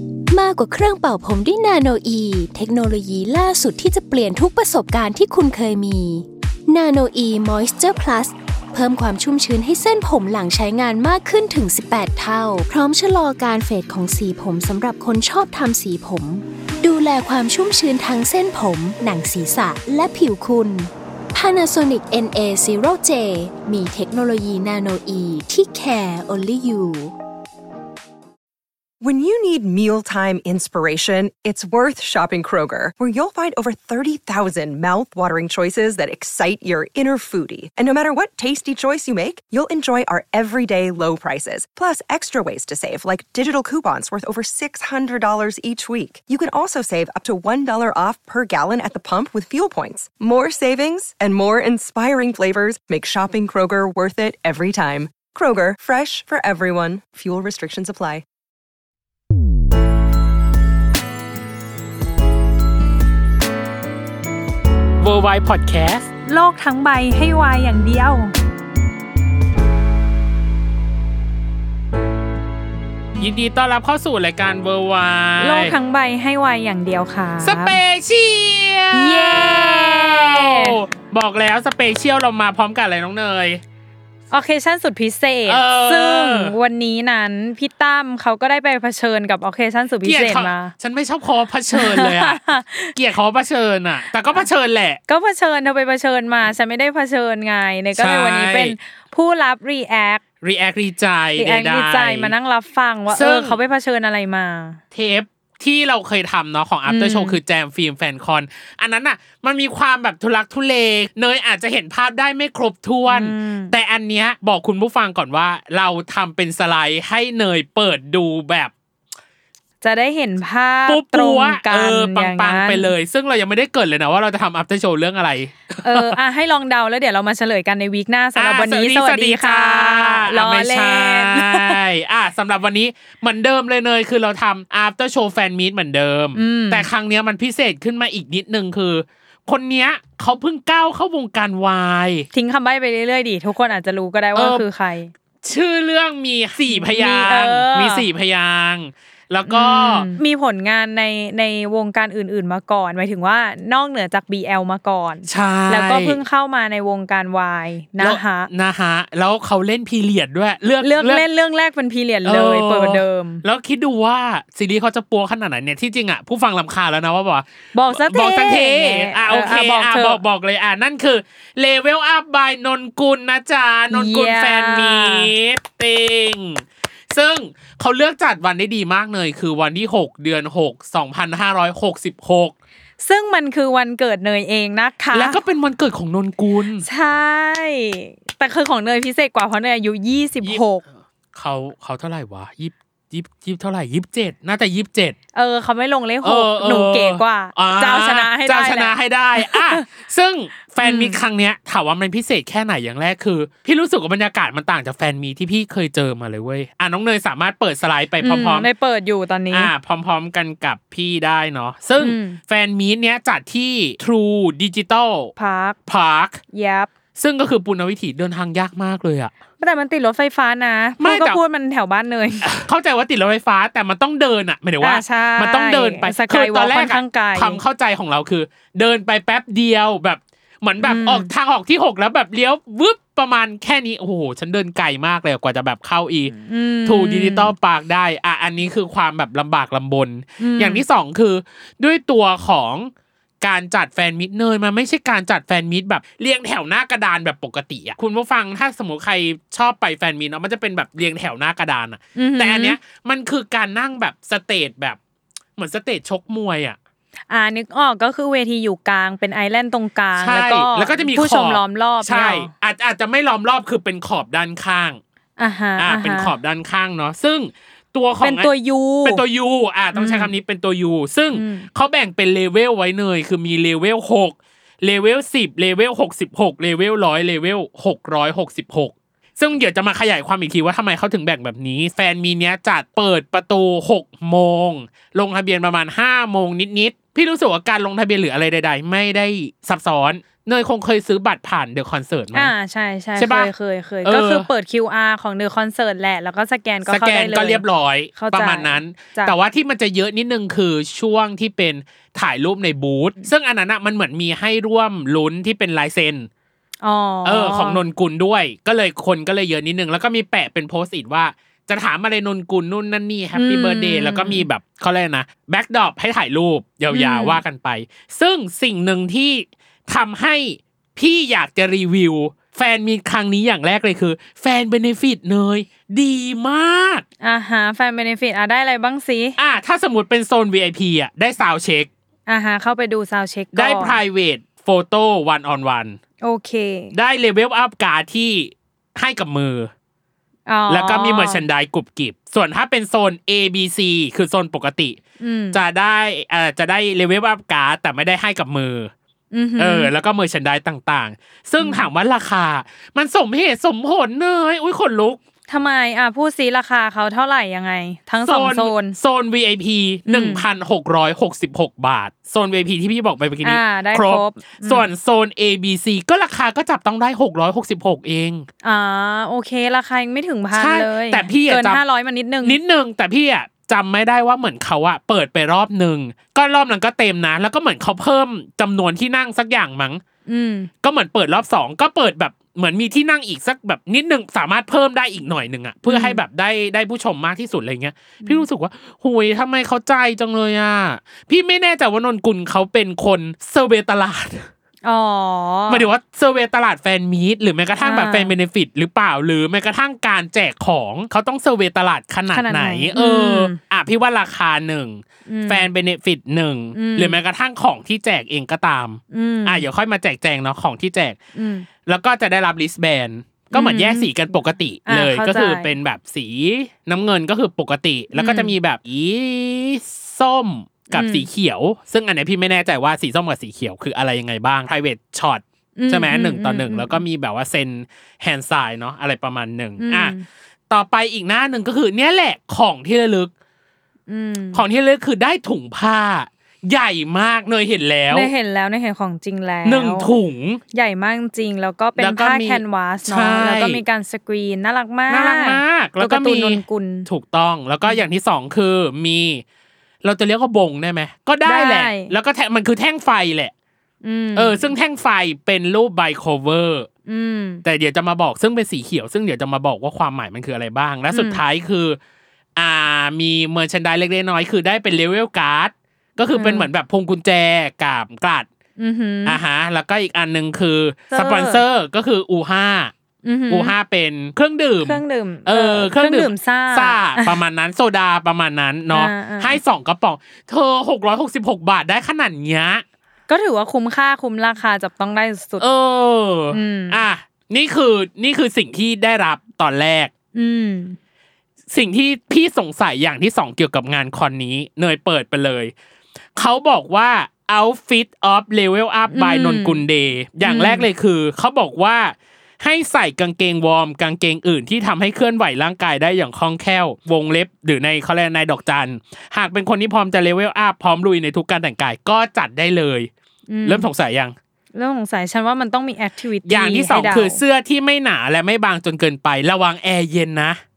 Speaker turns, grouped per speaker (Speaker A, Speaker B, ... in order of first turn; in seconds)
Speaker A: 0.3-27.1
Speaker B: 29.0-58.2
Speaker C: 65.0-66.1, 73.2-75.8, 77.4-83.6, 85.5-86.5, 90.0-95.0, 98.0-98.8, 100.4-102.3, 103.1-103.6, 104.9-118.7, 120.9-126.2, 128.4-142.3, 144.3-144.6, 145.4-150.1, 155.3-156.2, 158.0-161.2, 162.3-182.6, 185.1-186.8, 191.3-195.2, 196.2-208.7, 209.5-215.3, 215.9-216.4, 217.2-219.3, 221.0-221.4, 222.4-236.3, 236.9-242.9, 243.4-255.0, 255.6-256.8, 260.2-265.0, 265.8-268.5, 269.0-292.5, 293.2-293.5, 294.1-294.5, 296.9-306.3, 307.2-327.1, 329.4-331.9, 333.5-336.0, 336.9-339.7, 340.7-345.0, 345.5-348.9, 349.6-355.2, 358.2-368.5, 370.6-371.8, 372.4-380.0, 380.8-394.5, 395.7-411.2, 411.8-430.1, 430.7-433.3, 434.5-438.3, 439.6-440.6, 442.0-443.8, 445.1-449.4, 450.0-453.5, 454.4-456.9, 457.6-462.0, 462.6-468.5, 469.3-472.9, 473.5-482.8, 485.6-490.1, 491.7-495.7, 496.4-513.1, 513.6-514.4, 516.5-520.6
Speaker D: 66.3-68.3, 75.4-77.8, 78.9-80.8, 84.3-90.7, 91.7-93.0, 95.1-100.2, 101.4-104.8, 106.9-107.4, 113.1-113.7, 119.8-122.9, 125.8-131.8, 136.4-136.9, 142.3-145.1, 146.7-148.1, 149.5-158.5, 160.8-163.4, 167.7-170.2, 173.9-175.3, 183.0-185.4, 186.8-190.8, 195.3-199.8, 200.8-201.2, 208.2-209.7, 212.0-212.4, 215.4-215.8, 216.5-216.9, 219.6-222.5, 224.8-227.6, 230.8-231.3, 236.3-237.5, 240.4-240.8, 252.2-252.8, 257.3-262.5, 265.4-266.3, 268.2-269.2, 269.9-270.3, 271.3-271.7, 292.3-297.6, 298.1-299.3, 306.8-307.8, 313.4-314.4, 316.9-317.4, 327.2-329.4, 332.3-334.0, 336.2-336.9, 340.5-341.4, 345.2-345.6, 349.3-349.9, 351.6-351.9, 355.5-359.0, 360.1-360.4, 363.4-364.9, 368.6-372.6, 380.3-380.7, 385.9-386.2, 394.8-395.9, 397.8-398.3, 402.3-403.6, 405.3-405.6, 406.8-407.2, 409.1-409.6, 411.4-411.7, 413.5-414.1, 414.9-415.7, 418.1-418.5, 420.9-421.3, 425.8-427.0, 429.8-430.3, 434.1-434.6, 438.1-440.1, 440.7-447.1, 451.4-452.1, 454.0-454.7, 457.1-457.6, 461.1-461.4, 466.3-466.7, 468.8-469.4, 471.1-471.6, 473.2-473.7, 474.8-477.4, 478.9-479.6, 483.3-485.6, 486.5-487.0, 490.3-491.0, 499.1-499.8, 500.4-500.9, 513.5-513.9, 514.8-517.4